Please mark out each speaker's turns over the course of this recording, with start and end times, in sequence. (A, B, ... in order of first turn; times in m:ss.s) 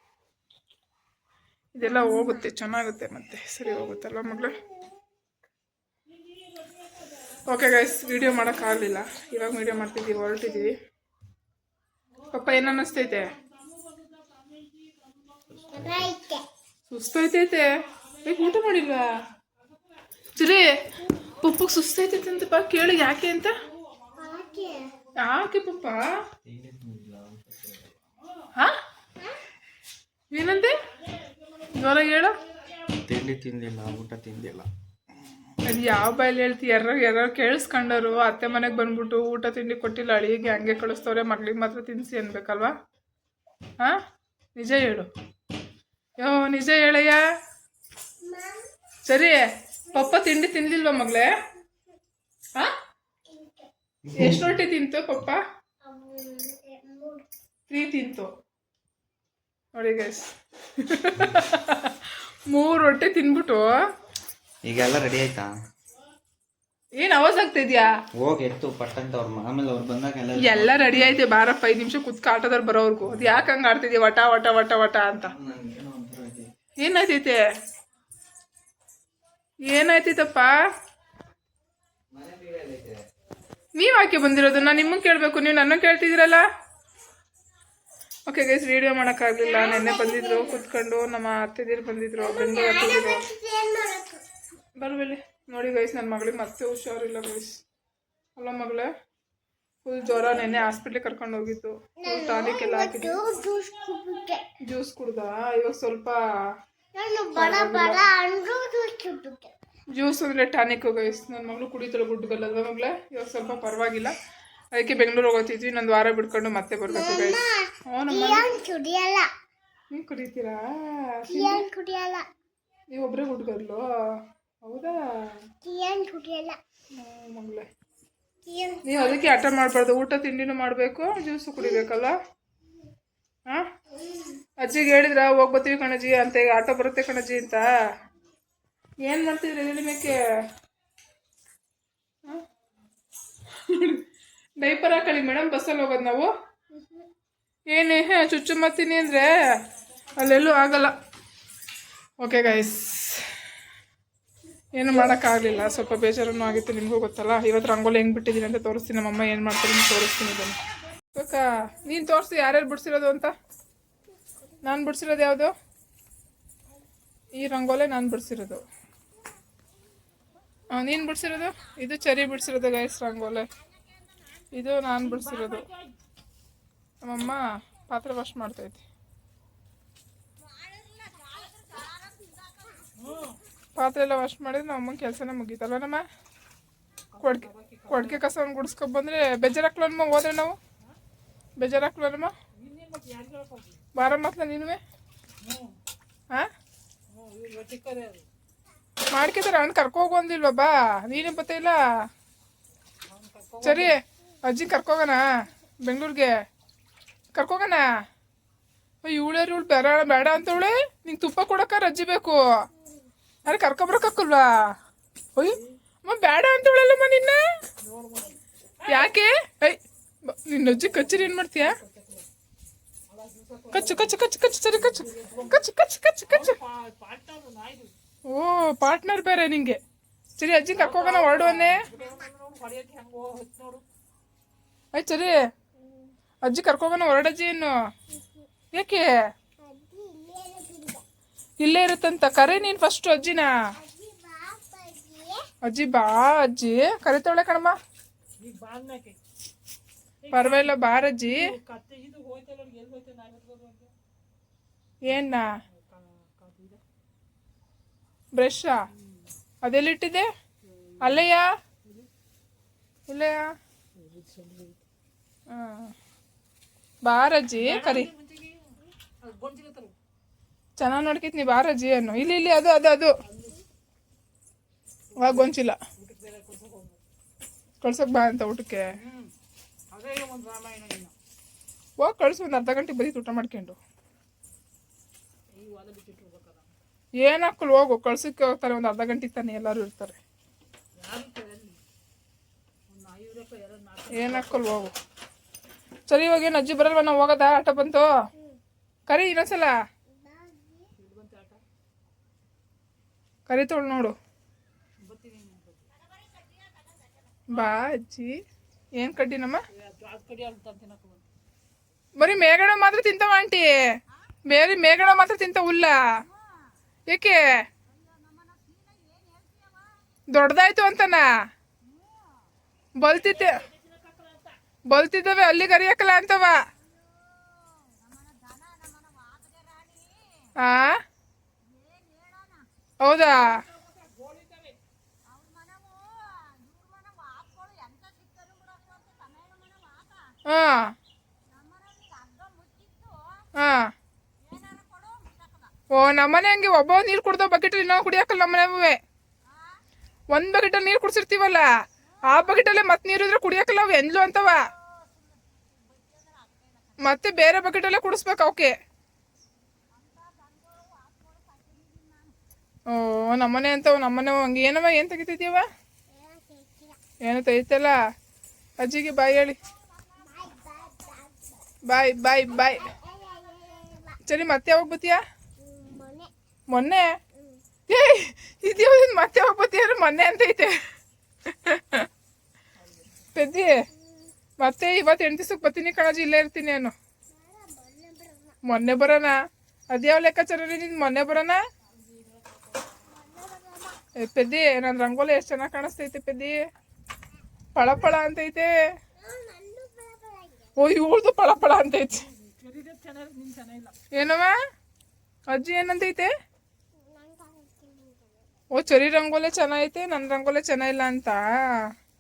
0:01.7-0:04.6 A
0:01.8-0:02.5 B
0:03.7-0:04.9 B
0:06.2-0:07.3 C
0:07.4-0:10.7 A
0:12.2-0:15.7 C
0:12.3-0:13.3 A
0:15.5-0:16.1 D
0:15.7-0:16.4 B
0:16.9-0:17.7 A
0:18.2-0:19.1 A
0:18.4-0:19.0 C
0:20.3-0:23.5 A
0:24.2-0:24.9 B
0:25.2-0:26.0 A
0:26.4-0:28.0 D
0:30.3-0:30.8 A
0:31.7-0:32.4 A
0:33.0-0:34.7 D
0:35.6-0:42.7 A
0:44.6-0:45.1 A
0:46.2-0:47.2 A
0:48.2-0:48.7 B
0:49.1-0:49.4 A
0:49.9-0:51.3 A
0:53.3-0:53.7 B
0:54.0-0:54.5 D
0:54.2-0:55.4 A
0:55.8-0:57.2 B
0:57.7-0:58.3 A
0:59.7-1:02.0 A
1:02.5-1:03.7 A
1:04.6-1:05.6 D
1:07.0-1:07.9 A
1:08.2-1:11.2 D
1:10.4-1:15.3 A
1:13.0-1:13.5 D
1:15.3-1:16.5 D
1:16.8-1:17.4 A
1:19.7-1:20.5 A
1:22.1-1:23.0 D
1:23.8-1:26.4 A
1:28.3-1:33.2 A
1:29.5-1:30.6 B
1:32.2-1:34.2 B
1:34.8-1:37.6 A
1:38.4-1:38.9 A
1:39.8-1:43.2 A
1:40.2-1:40.6 B
1:42.0-1:44.4 B
1:44.6-1:46.2 A
1:46.9-1:49.5 B
1:47.3-1:48.0 A
1:49.9-1:54.1 A
1:54.7-1:58.5 A
1:56.9-1:59.3 B
1:59.9-2:01.6 A
2:01.3-2:02.2 B
2:02.9-2:03.8 A
2:04.6-2:05.0 A
2:05.6-2:06.6 B
2:06.9-2:07.6 A
2:08.4-2:09.3 B
2:08.8-2:12.1 A
2:11.6-2:11.9 B
2:13.9-2:14.4 B
2:14.6-2:17.6 A
2:19.0-2:20.2 A
2:23.7-2:24.0 A
2:24.6-2:26.3 A
2:26.7-2:27.1 B
2:27.7-2:29.3 A
2:30.2-2:31.0 A
2:32.2-2:33.2 A
2:34.8-2:40.6 A
2:41.1-2:43.3 A
2:44.6-2:45.5 A
2:47.3-2:48.6 A
2:50.7-2:53.5 A
2:54.5-2:55.6 A
2:54.9-2:55.9 C
2:57.0-2:58.8 A
3:00.4-3:02.9 B
3:02.9-3:03.4 C
3:03.8-3:06.0 A
3:07.2-3:08.2 C
3:07.2-3:10.6 A
3:11.6-3:12.3 A
3:12.6-3:13.8 C
3:14.0-3:14.8 A
3:15.4-3:15.8 C
3:17.1-3:18.2 C
3:19.1-3:21.8 A
3:23.0-3:24.0 C
3:23.6-3:25.2 A
3:25.8-3:26.3 A
3:27.4-3:27.8 A
3:29.0-3:32.4 A
3:32.8-3:33.1 B
3:33.4-3:34.4 A
3:35.4-3:37.4 A
3:37.8-3:39.1 C
3:38.9-3:41.8 A
3:40.9-3:42.3 C
3:43.1-3:44.1 C
3:43.7-3:46.6 A
3:44.7-3:45.6 C
3:46.3-3:47.9 C
3:48.3-3:49.8 A
3:50.4-3:51.9 A
3:50.8-3:53.8 C
3:54.9-3:55.4 A
3:55.8-3:56.1 B
3:56.4-3:57.7 A
3:58.1-3:58.5 B
3:58.7-3:59.1 A
3:59.6-4:01.0 B
4:01.6-4:03.5 A
4:03.8-4:05.5 B
4:05.6-4:07.8 A
4:08.4-4:09.2 C
4:10.2-4:10.8 C
4:10.3-4:11.5 A
4:11.3-4:13.9 C
4:15.0-4:15.5 A
4:15.7-4:16.8 C
4:18.4-4:18.8 A
4:18.9-4:19.3 C
4:19.6-4:20.3 A
4:20.6-4:21.3 C
4:21.0-4:21.5 A
4:21.8-4:22.1 C
4:23.1-4:23.4 A
4:23.9-4:24.8 C
4:25.5-4:25.9 A
4:27.0-4:28.1 A
4:27.6-4:29.9 C
4:30.8-4:33.1 A
4:33.2-4:33.6 C
4:35.1-4:37.0 C
4:35.2-4:35.8 A
4:37.8-4:38.8 A
4:39.0-4:39.3 C
4:39.9-4:41.1 C
4:42.0-4:43.8 A
4:45.5-4:46.8 C
4:47.2-4:50.2 A
4:50.9-4:51.8 C
4:52.9-4:54.9 C
4:54.1-4:54.9 A
4:56.1-4:58.1 A
4:59.1-4:59.7 A
5:00.1-5:00.9 B
5:01.0-5:01.6 C
5:03.5-5:04.2 A
5:05.0-5:05.9 C
5:07.5-5:08.3 A
5:09.0-5:09.6 A
5:09.7-5:11.3 C
5:12.2-5:13.7 A
5:14.5-5:16.0 A
5:17.1-5:17.4 A
5:20.3-5:21.3 A
5:23.0-5:23.6 A
5:23.1-5:24.6 C
5:24.9-5:26.6 A
5:30.6-5:31.0 A
5:33.0-5:33.6 A
5:33.2-5:34.8 C
5:40.4-5:40.9 A
5:43.6-5:43.9 A
5:45.9-5:49.0 A
5:50.3-5:51.6 A
5:52.3-5:54.7 A
5:57.0-5:58.7 A
6:02.9-6:05.6 A
6:06.1-6:07.0 B
6:07.2-6:08.0 A
6:08.8-6:09.6 A
6:10.2-6:11.6 B
6:11.9-6:12.9 A
6:12.7-6:14.2 B
6:14.2-6:15.2 A
6:15.6-6:16.3 B
6:16.7-6:17.1 A
6:17.4-6:17.6 B
6:17.9-6:20.8 A
6:21.5-6:22.1 A
6:22.8-6:23.3 C
6:23.4-6:23.7 A
6:24.0-6:24.3 B
6:24.6-6:26.9 A
6:27.3-6:28.6 B
6:28.6-6:29.4 A
6:29.9-6:31.6 A
6:32.0-6:32.9 C
6:33.0-6:34.0 B
6:34.2-6:36.6 A
6:37.7-6:38.7 A
6:39.2-6:40.7 B
6:40.8-6:42.2 A
6:42.3-6:43.9 C
6:44.1-6:44.5 A
6:45.5-6:46.3 A
6:47.0-6:48.5 B
6:48.7-6:51.4 A